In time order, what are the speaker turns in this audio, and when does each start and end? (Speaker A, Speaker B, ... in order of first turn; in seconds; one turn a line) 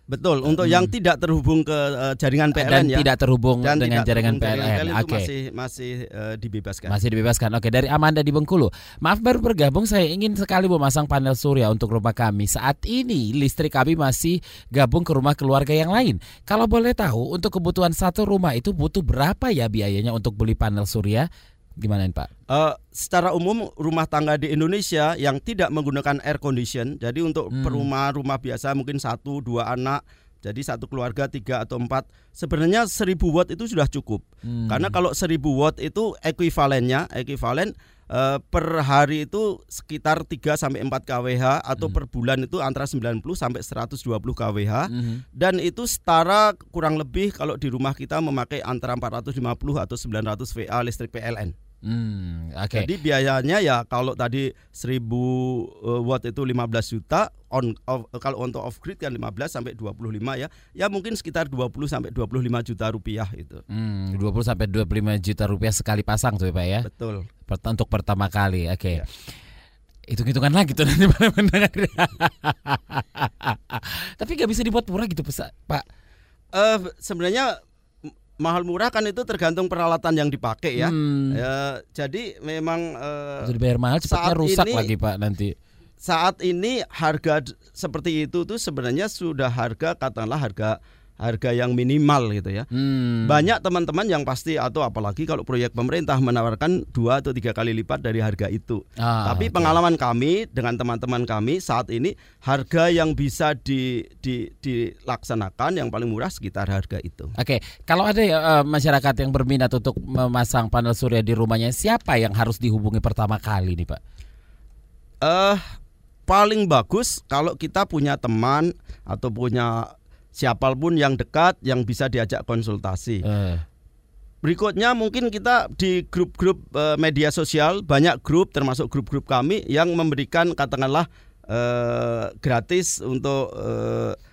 Speaker A: 0.1-3.1
Speaker B: 0.5-0.9
Speaker B: 2.5-5.3
Speaker A: 3.6-7.0
Speaker B: 6.9-21.3
Speaker B: 21.8-22.3
Speaker A: 22.5-51.5
Speaker B: 27.5-27.9
Speaker B: 34.5-35.0
Speaker B: 44.9-45.2
Speaker B: 51.9-52.9
Speaker A: 52.7-63.6
Speaker B: 63.7-66.9
Speaker A: 66.8-67.3
Speaker B: 67.5-69.0
Speaker B: 70.1-75.8
Speaker A: 76.5-77.6
Speaker A: 78.4-83.5
Speaker B: 80.8-81.4
Speaker B: 83.5-85.5
Speaker A: 84.1-84.9
Speaker A: 86.0-92.7
Speaker B: 92.7-93.5
Speaker A: 93.2-107.3
Speaker B: 99.0-99.8
Speaker B: 107.4-114.0
Speaker A: 115.2-115.6
Speaker A: 116.3-123.2
Speaker B: 123.2-123.6
Speaker A: 124.4-134.2